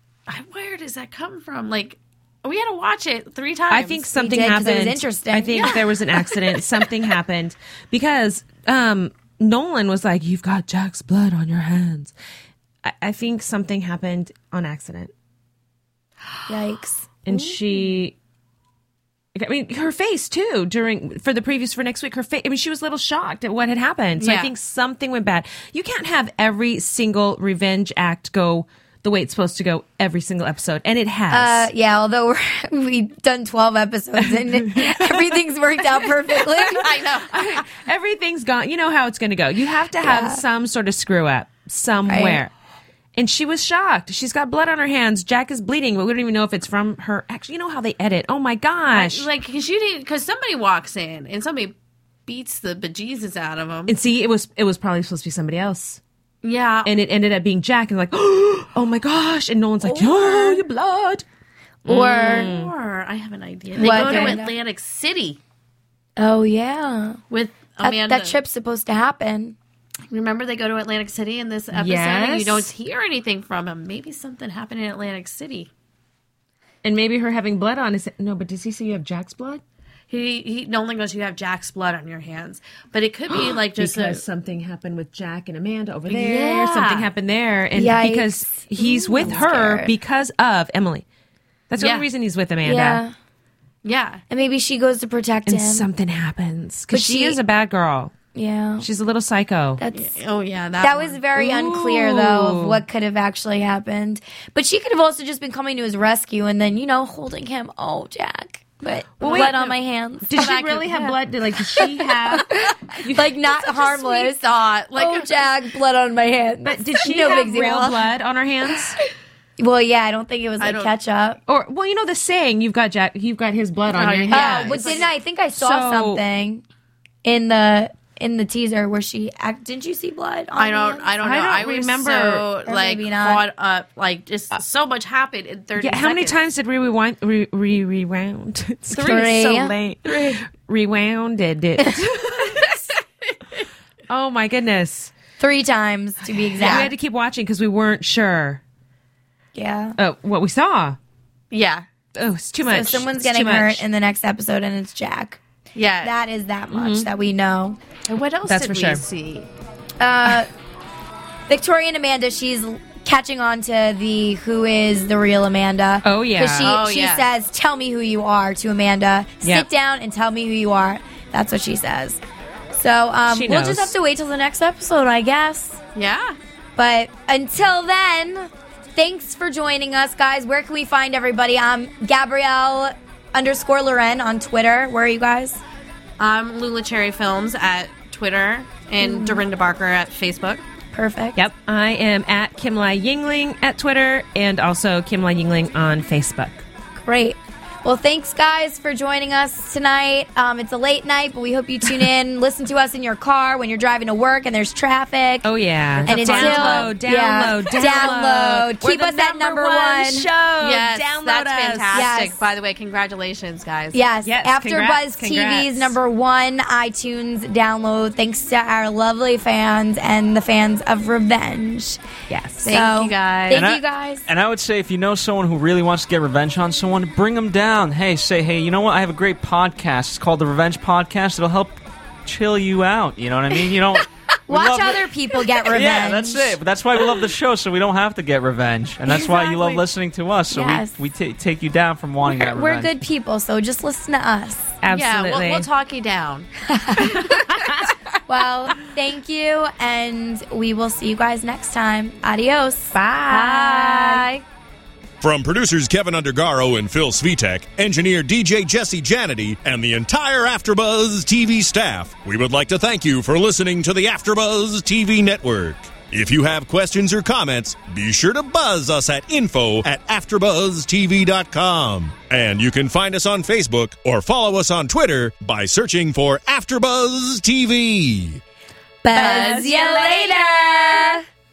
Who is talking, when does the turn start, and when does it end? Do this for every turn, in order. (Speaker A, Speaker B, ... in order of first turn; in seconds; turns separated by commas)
Speaker A: 0.3-4.2, Speaker B: 3.7-12.1, Speaker C: 4.2-5.8, Speaker B: 12.8-15.1, Speaker C: 16.5-17.6, Speaker B: 17.2-18.2, Speaker B: 19.4-31.7, Speaker A: 24.2-24.5, Speaker C: 31.3-36.9, Speaker B: 34.2-35.3, Speaker A: 36.7-37.6, Speaker B: 37.3-42.5, Speaker C: 40.0-40.4, Speaker C: 42.1-42.4, Speaker B: 43.1-49.3, Speaker A: 48.9-51.7, Speaker A: 52.3-54.0, Speaker B: 53.9-56.0, Speaker A: 56.4-56.9, Speaker B: 56.9-61.2, Speaker C: 59.8-60.6, Speaker B: 61.9-62.7, Speaker C: 61.9-62.5, Speaker A: 61.9-65.4, Speaker C: 63.8-64.5, Speaker B: 63.8-64.4, Speaker C: 66.2-67.2, Speaker A: 67.3-68.4, Speaker C: 67.8-69.6, Speaker A: 70.1-75.7, Speaker B: 71.7-72.7, Speaker B: 76.8-79.6, Speaker A: 80.1-84.2, Speaker B: 83.3-91.0, Speaker A: 86.1-87.1, Speaker C: 87.8-90.0, Speaker B: 91.7-93.0, Speaker A: 91.8-92.1, Speaker C: 92.6-93.1, Speaker A: 93.8-94.2, Speaker C: 94.3-95.9, Speaker B: 95.5-98.2, Speaker C: 96.9-97.4, Speaker C: 98.3-98.9, Speaker B: 98.8-99.8, Speaker C: 99.8-100.2, Speaker A: 99.9-101.2, Speaker C: 100.8-110.6, Speaker B: 101.3-102.8, Speaker B: 109.2-113.4, Speaker A: 109.2-109.6, Speaker A: 110.3-111.2, Speaker C: 111.8-114.4, Speaker A: 113.6-115.5, Speaker C: 114.9-118.1, Speaker B: 116.6-119.0, Speaker C: 119.6-121.4, Speaker A: 120.6-120.9, Speaker B: 121.5-125.0, Speaker A: 123.9-125.1, Speaker C: 124.3-126.6, Speaker B: 125.6-126.2, Speaker C: 127.2-131.1, Speaker A: 130.6-136.4, Speaker B: 131.2-132.5, Speaker C: 132.7-133.4, Speaker B: 135.8-142.6, Speaker C: 138.9-139.8, Speaker A: 141.9-142.8, Speaker B: 144.1-145.1, Speaker C: 145.4-146.9, Speaker B: 146.6-148.6, Speaker A: 146.6-146.9, Speaker C: 149.6-150.0, Speaker B: 150.0-151.0, Speaker A: 151.5-151.8, Speaker B: 152.2-153.8, Speaker C: 152.7-155.4, Speaker A: 155.8-156.1, Speaker C: 156.0-157.8, Speaker B: 156.7-157.1, Speaker A: 158.1-159.5, Speaker B: 158.5-159.0, Speaker C: 160.0-160.5, Speaker C: 161.5-175.8, Speaker B: 166.0-166.7, Speaker A: 166.6-167.2, Speaker B: 173.3-173.9, Speaker A: 175.9-176.4, Speaker C: 176.8-185.6, Speaker A: 186.2-190.6, Speaker C: 189.0-189.4, Speaker C: 190.9-191.4, Speaker B: 191.4-196.6, Speaker C: 196.9-210.3, Speaker B: 205.4-212.0, Speaker A: 206.0-206.9, Speaker A: 210.6-214.0, Speaker C: 211.9-212.4, Speaker C: 213.9-222.0, Speaker B: 214.2-216.0, Speaker B: 222.3-222.8, Speaker C: 222.6-224.3, Speaker A: 222.7-223.7, Speaker D: 223.5-235.0, Speaker C: 234.5-236.6, Speaker D: 235.7-243.0, Speaker A: 239.1-239.8, Speaker C: 240.5-241.0, Speaker C: 242.3-244.8, Speaker B: 244.8-245.7, Speaker A: 244.9-246.5, Speaker C: 246.7-247.3, Speaker A: 247.0-247.7, Speaker C: 248.3-254.3, Speaker A: 253.3-254.4, Speaker E: 255.2-278.4, Speaker C: 279.0-281.2, Speaker B: 279.1-280.0, Speaker A: 279.2-280.1